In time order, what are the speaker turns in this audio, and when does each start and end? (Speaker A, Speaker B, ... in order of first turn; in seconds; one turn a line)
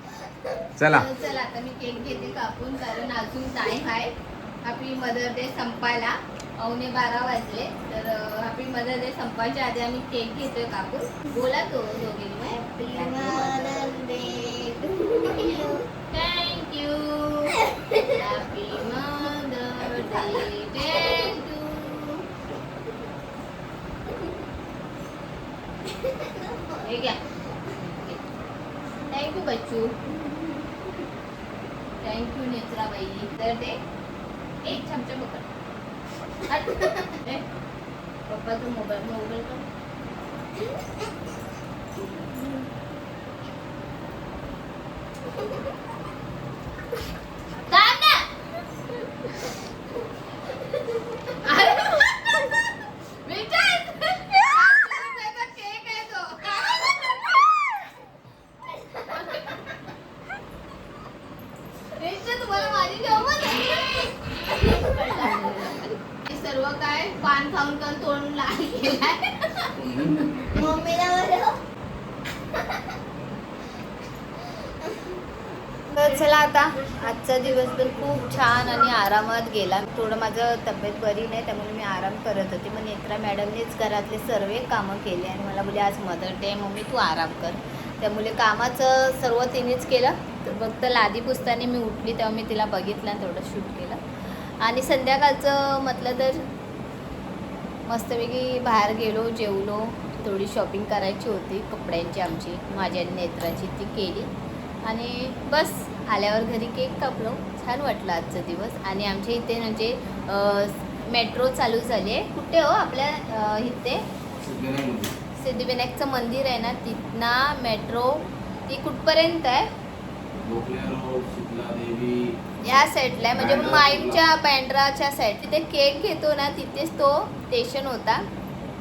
Speaker A: 0.8-1.1
Speaker B: 0.9-4.1
Speaker B: 4.6-14.7
Speaker C: 12.7-15.8
Speaker B: 16.1-22.2
Speaker C: 17.6-18.1
Speaker B: 26.8-27.2
Speaker B: 29.1-30.2
Speaker B: 32.0-33.8
Speaker B: 34.6-35.5
Speaker B: 36.4-37.4
Speaker B: 38.3-39.7
Speaker B: 47.7-48.3
Speaker B: 51.3-57.4
Speaker B: 59.0-59.4
Speaker B: 62.0-69.7
Speaker C: 65.0-65.5
Speaker A: 69.8-70.3
Speaker B: 70.3-70.6
Speaker C: 70.6-71.6
Speaker B: 75.9-94.0
Speaker B: 94.6-96.5
Speaker B: 97.9-104.3
Speaker B: 104.8-114.0
Speaker A: 114.4-115.1
Speaker B: 115.4-119.7
Speaker A: 120.4-122.4
Speaker B: 122.6-128.2
Speaker A: 123.3-124.2